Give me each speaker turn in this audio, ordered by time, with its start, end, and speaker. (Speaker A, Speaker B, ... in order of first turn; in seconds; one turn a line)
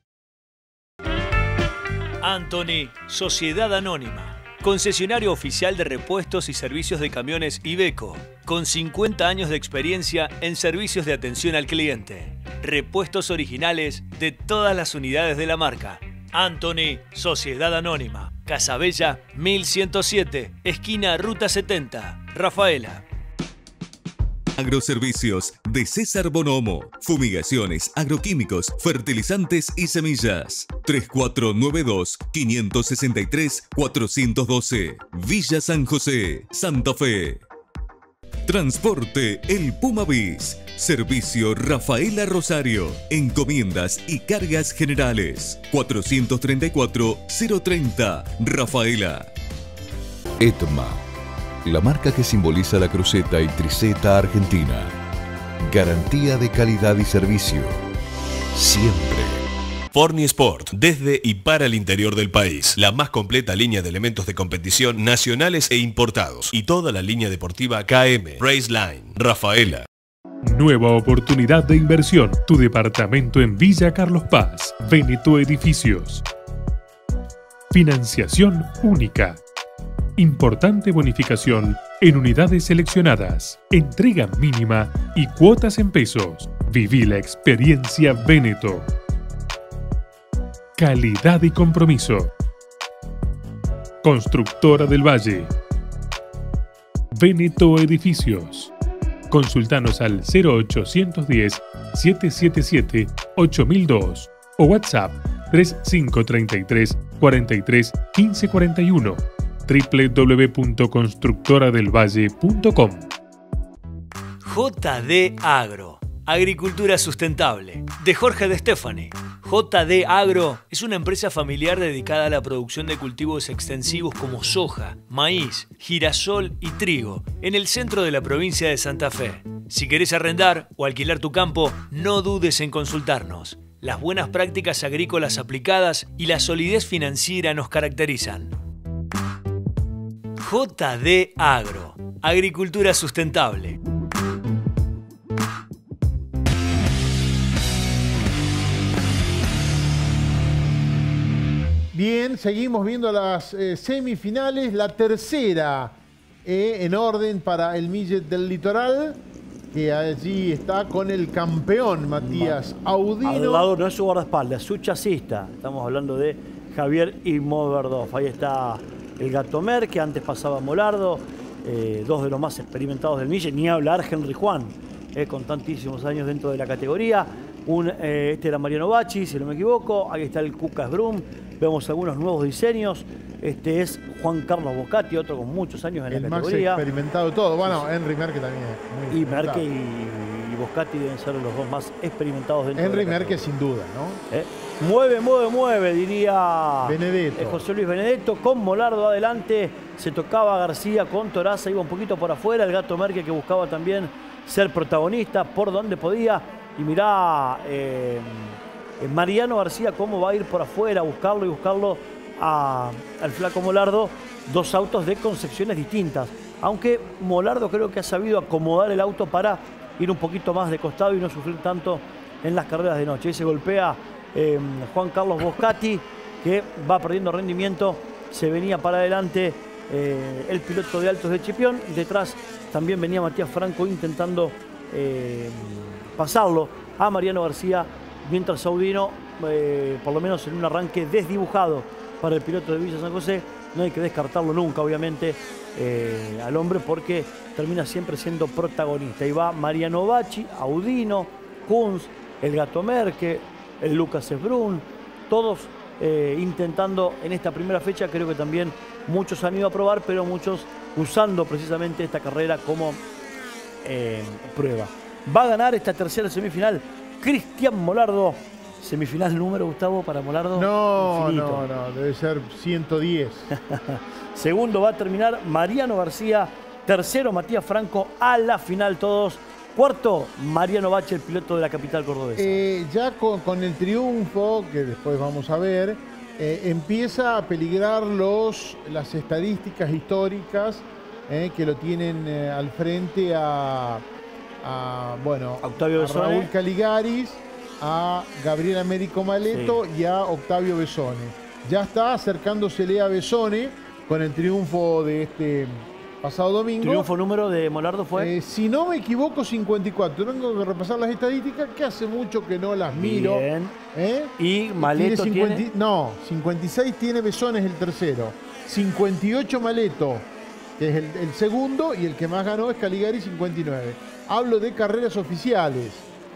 Speaker A: 2.2-23.0
Speaker B: 24.6-37.4
Speaker B: 38.5-49.3
Speaker C: 50.4-51.0
Speaker C: 51.6-55.0
Speaker C: 55.6-57.8
Speaker C: 58.5-59.4
Speaker D: 59.9-69.8
Speaker E: 70.4-76.2
Speaker E: 77.7-79.4
Speaker E: 80.2-88.9
Speaker E: 90.8-92.3
Speaker E: 94.0-95.5
Speaker E: 97.1-98.7
Speaker E: 99.3-113.1
Speaker A: 114.4-138.5
Speaker A: 140.4-143.8
Speaker F: 151.9-159.2
Speaker F: 159.7-163.7
Speaker G: 162.2-162.6
Speaker G: 163.2-186.8
Speaker F: 186.1-189.6
Speaker G: 189.1-193.5
Speaker F: 192.8-194.2
Speaker G: 194.3-263.0
Speaker F: 196.8-197.6
Speaker G: 263.8-271.6
Speaker F: 270.5-273.5
Speaker G: 273.5-282.6
Speaker F: 282.4-294.0
Speaker F: 294.6-307.1
Speaker G: 295.6-296.5
Speaker G: 299.5-299.8
Speaker G: 306.8-308.3
Speaker F: 308.1-326.1
Speaker G: 312.9-313.7
Speaker G: 314.4-315.6